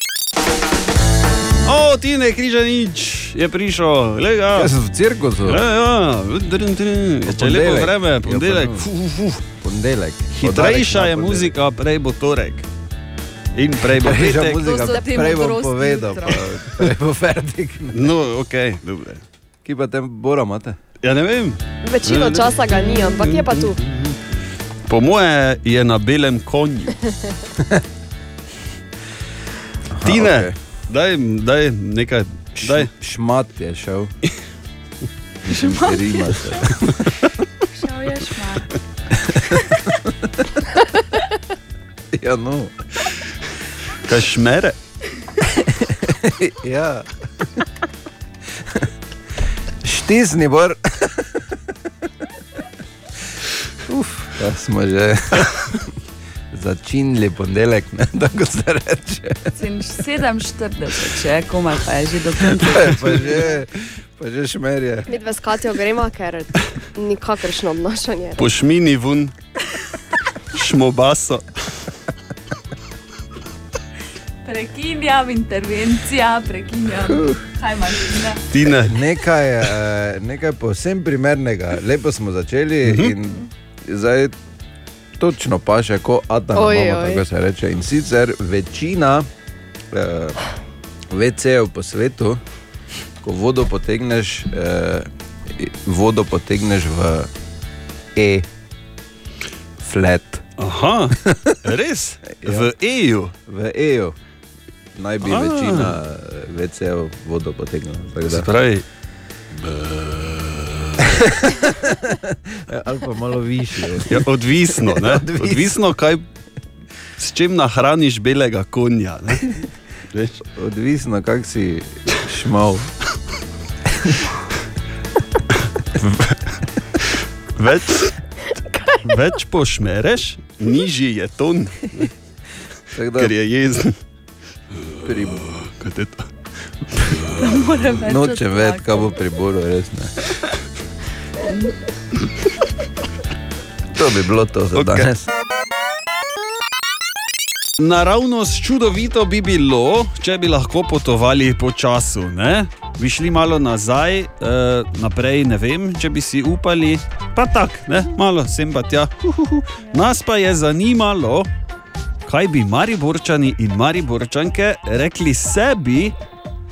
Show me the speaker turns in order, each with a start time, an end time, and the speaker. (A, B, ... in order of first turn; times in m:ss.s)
0:01.6-0:04.7 A
0:04.5-0:05.6 B
0:05.4-0:09.4 A
0:07.3-0:08.9 B
0:09.6-0:11.6 B
0:10.3-0:12.7 A
0:13.6-0:14.9 A
0:13.9-0:18.1 B
0:14.6-0:16.4 C
0:17.9-0:19.2 A
0:19.6-0:20.8 B
0:21.0-0:24.2 A
0:21.8-0:23.8 D
0:24.9-0:27.0 A
0:29.9-0:30.6 B
0:30.0-0:32.9 A
0:32.6-0:34.1 B
0:35.5-0:36.5 C
0:35.5-0:36.8 B
0:37.7-0:38.7 C
0:39.1-0:40.6 B
0:42.1-0:42.7 B
0:44.1-0:44.8 A
0:45.6-0:47.6 B
0:48.6-0:48.9 B
0:49.8-0:51.6 B
0:53.9-0:55.9 B
0:56.5-0:59.6 B
0:59.6-1:03.1 C
1:02.6-1:05.2 B
1:05.1-1:08.4 D
1:08.4-1:09.3 A
1:10.5-1:11.6 A
1:14.4-1:18.4 C
1:18.5-1:19.1 A
1:18.8-1:24.4 B
1:22.9-1:23.1 A
1:25.2-1:29.3 B
1:26.6-1:27.2 D
1:29.9-1:30.4 B
1:31.1-1:32.4 B
1:33.2-1:37.3 B
1:38.2-1:38.5 B
1:39.8-1:40.4 B
1:40.6-1:43.3 A
1:41.2-1:41.6 B
1:42.3-1:42.7 B
1:43.5-1:44.2 B
1:45.0-1:48.5 B
1:45.2-1:46.0 A
1:48.3-1:48.8 A
1:49.6-1:51.1 A
1:51.1-1:55.8 B
1:54.1-1:56.2 A
1:57.2-2:00.4 A
2:00.6-2:02.9 B
2:06.0-2:06.4 A
2:07.1-2:08.2 A
2:09.0-2:12.1 A
2:13.0-2:13.3 B
2:13.2-2:13.9 A
2:15.0-2:15.5 B
2:15.4-2:16.3 A
2:16.9-2:17.4 A
2:17.4-2:19.2 C
2:18.0-2:20.1 B
2:21.4-2:21.8 C
2:23.9-2:25.3 B
2:24.7-2:25.1 A
2:27.8-2:41.5 A
2:42.3-2:46.2 A